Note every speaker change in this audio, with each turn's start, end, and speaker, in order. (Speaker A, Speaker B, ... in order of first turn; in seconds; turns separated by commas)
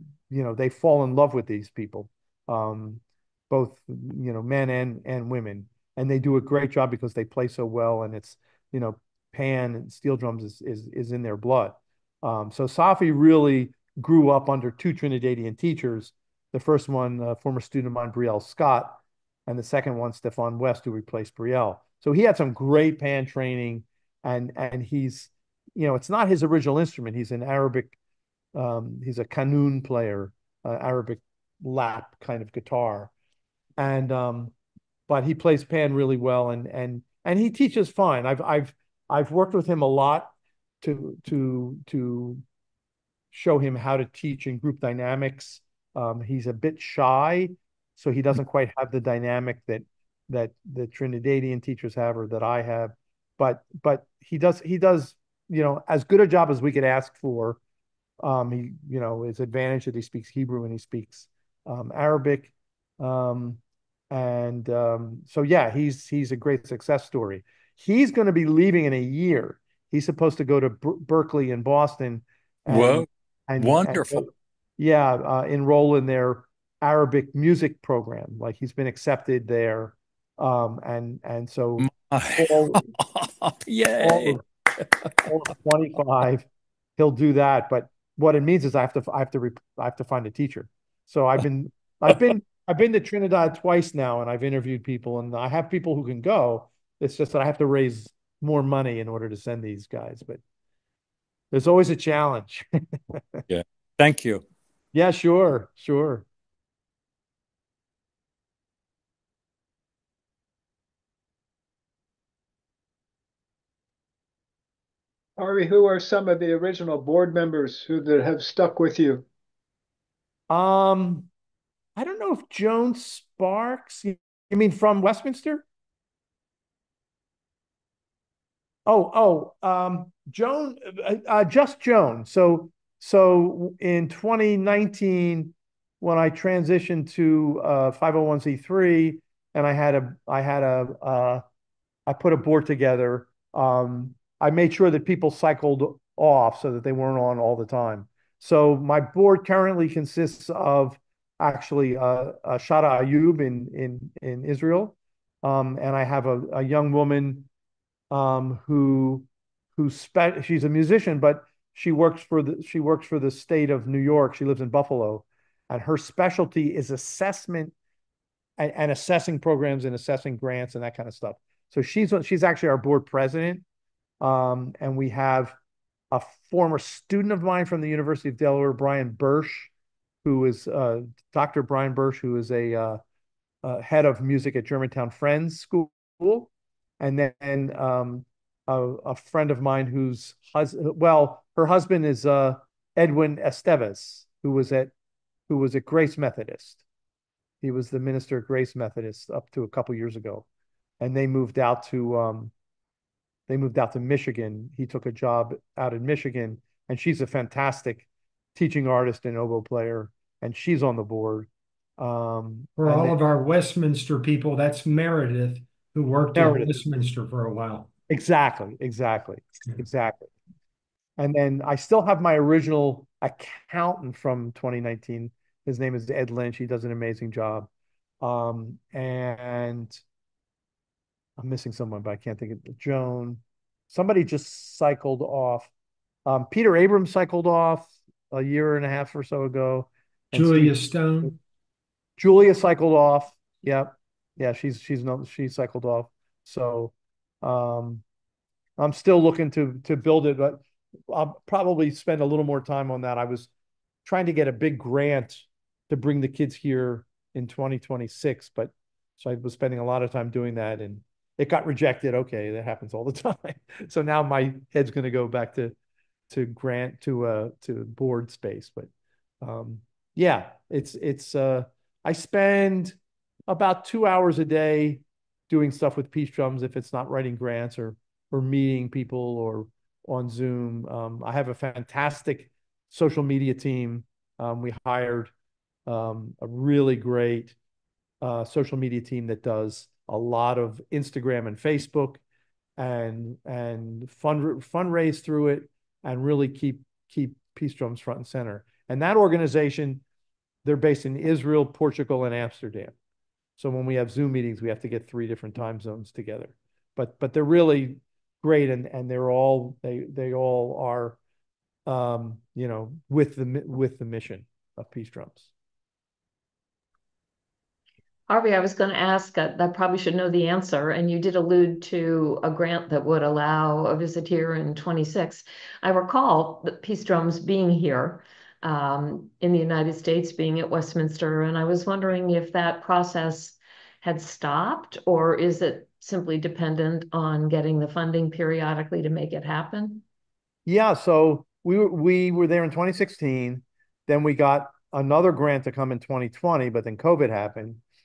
Speaker A: 0.3-27.9, Speaker A: 28.5-33.1, Speaker A: 33.8-34.5, Speaker A: 35.1-42.4, Speaker A: 43.3-57.6, Speaker A: 58.2-82.8, Speaker B: 72.7-74.3, Speaker B: 81.8-84.4, Speaker A: 84.0-84.5, Speaker A: 85.2-86.5, Speaker A: 87.0-100.4, Speaker A: 101.5-103.2, Speaker B: 103.5-104.4, Speaker A: 104.9-106.3, Speaker C: 115.4-119.2, Speaker A: 120.5-121.3, Speaker A: 122.0-125.6, Speaker A: 128.9-141.4, Speaker A: 142.1-157.5, Speaker A: 158.1-167.7, Speaker A: 168.6-173.6, Speaker A: 174.2-175.6, Speaker A: 176.1-179.7, Speaker A: 180.2-183.0, Speaker A: 183.6-194.9, Speaker A: 195.5-196.8, Speaker A: 197.6-200.5, Speaker A: 201.0-202.5, Speaker A: 203.5-213.2, Speaker D: 212.8-217.9, Speaker A: 216.3-216.8, Speaker A: 218.1-220.3, Speaker A: 221.2-227.7, Speaker A: 228.2-230.0, Speaker A: 231.4-235.7, Speaker A: 236.2-241.3, Speaker D: 240.3-241.3, Speaker A: 242.2-248.0, Speaker A: 248.8-253.5, Speaker A: 254.1-265.8, Speaker A: 266.3-268.9, Speaker A: 269.4-285.3, Speaker A: 285.9-287.6, Speaker A: 288.2-292.2, Speaker A: 292.8-300.0, Speaker A: 300.6-302.9, Speaker A: 303.6-311.2, Speaker A: 311.9-315.5, Speaker E: 318.3-340.0, Speaker A: 340.6-347.8